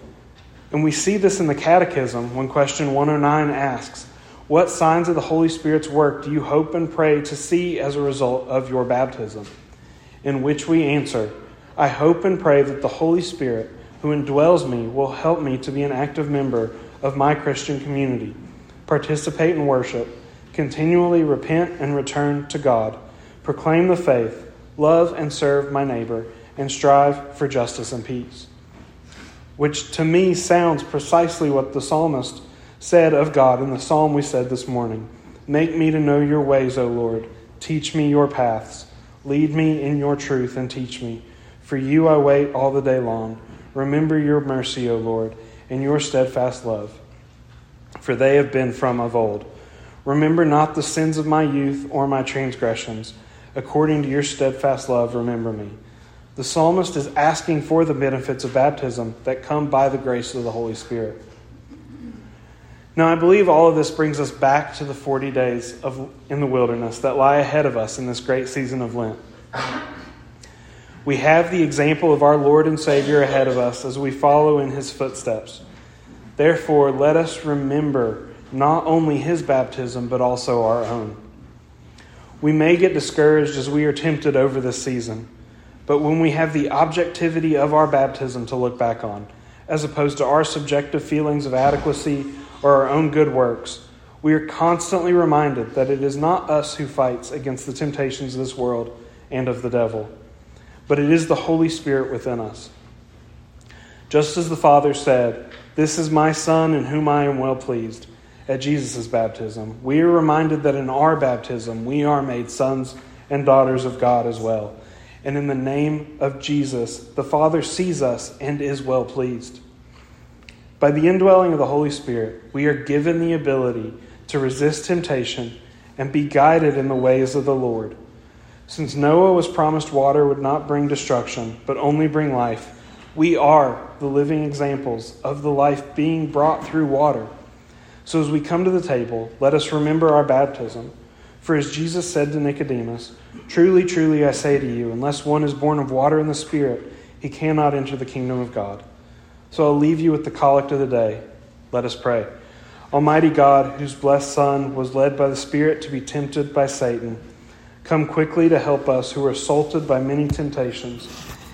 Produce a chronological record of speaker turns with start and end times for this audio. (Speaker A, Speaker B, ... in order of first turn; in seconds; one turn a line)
Speaker A: 0.7-9.5
Speaker A: 10.2-28.5
Speaker A: 29.6-47.0
Speaker A: 48.0-49.5
Speaker A: 50.0-55.8
Speaker A: 56.4-61.2
Speaker A: 62.9-69.2
Speaker A: 71.0-75.6
Speaker A: 76.4-81.2
Speaker A: 82.4-85.3
Speaker A: 85.9-100.1
Speaker A: 100.9-102.7
Speaker A: 104.1-119.6
Speaker A: 120.8-128.0
Speaker A: 128.7-137.3
Speaker A: 138.0-148.8
Speaker A: 149.5-152.3
Speaker A: 152.9-157.2
Speaker A: 157.8-161.1